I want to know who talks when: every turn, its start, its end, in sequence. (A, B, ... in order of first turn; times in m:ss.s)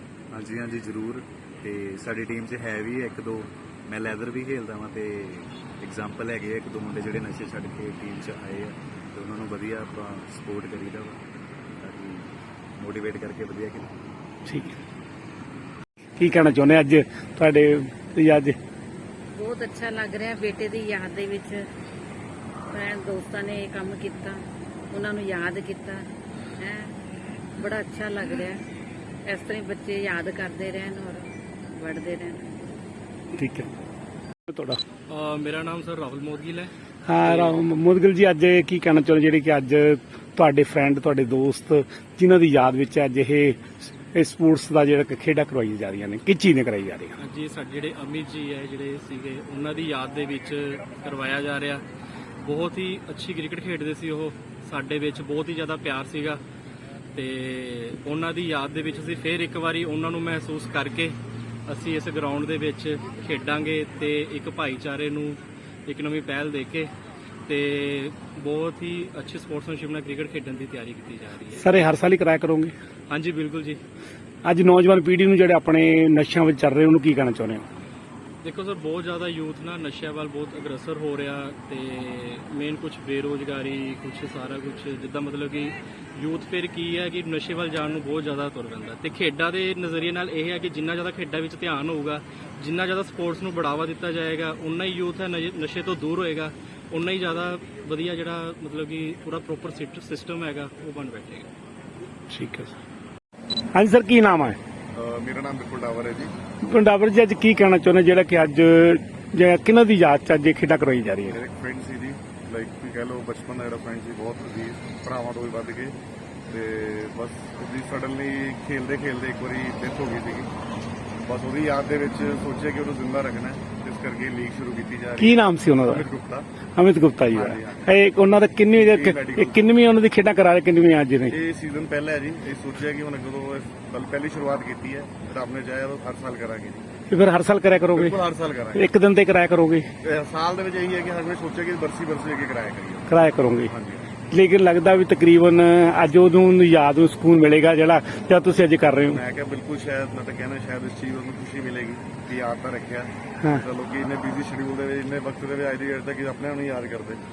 0:00.3-0:11.2 A
0:11.8-0:13.9 A
0:14.5-0:14.8 B
0:16.2-0:18.6 B
0:19.4-0:21.6 C
0:22.7-0:24.4 C
0:24.9-0:26.0 C
0:26.6-0:26.9 C
0:27.6-0:28.6 C
0:29.3-0:32.5 C
0:33.4-0:33.7 B
0:34.5-0:34.8 B
0:35.1-0:36.7 D
0:37.1-0:43.6 B
0:37.2-0:37.6 D
0:44.1-0:47.2 B
0:47.2-0:51.8 D
0:52.4-0:56.4 D
0:57.1-1:01.2 D
1:01.7-1:06.9 D
1:07.5-1:11.8 D
1:11.6-1:12.7 B
1:13.1-1:13.8 D
1:14.4-1:17.6 B
1:18.4-1:41.5 D
1:42.3-1:42.8 B
1:43.7-1:44.6 B
1:44.9-1:46.3 E
1:46.6-1:51.4 B
1:51.3-1:56.0 E
1:56.5-2:00.5 E
2:01.2-2:06.5 E
2:05.2-2:06.1 B
2:06.8-2:11.3 B
2:07.2-2:08.0 E
2:08.8-2:09.6 E
2:11.3-2:16.8 E
2:17.1-2:18.2 B
2:17.9-2:18.8 E
2:18.7-2:19.9 B
2:20.0-2:24.1 E
2:23.1-2:23.7 B
2:24.3-2:29.2 B
2:29.0-2:37.2 E